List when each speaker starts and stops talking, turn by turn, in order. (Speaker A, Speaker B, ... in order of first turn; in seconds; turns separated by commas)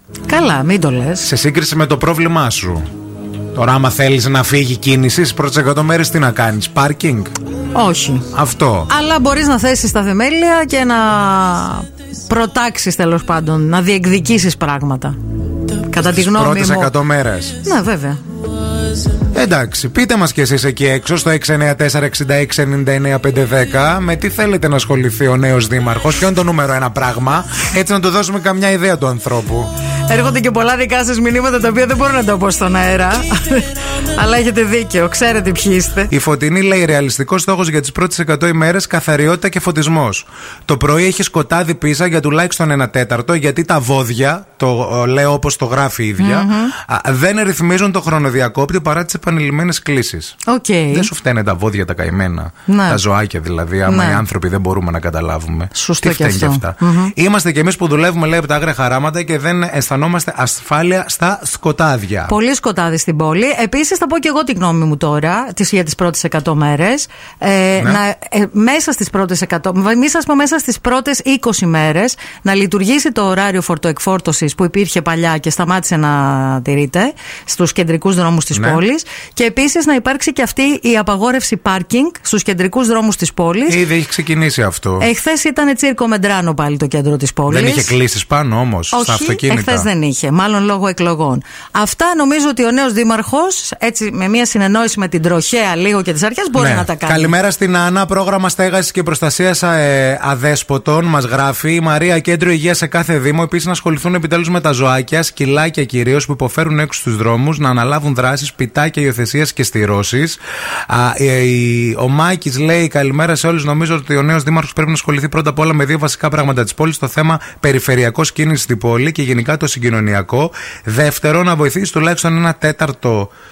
Speaker A: 0.3-1.3, Speaker B: 1.2-2.8, Speaker B: 3.5-7.3, Speaker A: 7.7-8.3, Speaker B: 8.3-8.9, Speaker A: 8.9-15.2, Speaker A: 15.7-16.9, Speaker B: 16.0-17.6, Speaker A: 17.6-18.2, Speaker B: 19.3-29.7, Speaker A: 30.1-36.1, Speaker B: 36.1-50.4, Speaker A: 46.2-46.7, Speaker A: 50.5-51.1, Speaker B: 50.9-62.3, Speaker A: 52.7-53.0, Speaker A: 53.9-54.2, Speaker A: 55.8-57.1, Speaker A: 62.3-83.8, Speaker B: 78.5-78.8, Speaker B: 83.7-85.1, Speaker A: 85.0-87.9, Speaker B: 87.5-89.9, Speaker A: 88.9-97.3, Speaker B: 96.6-123.3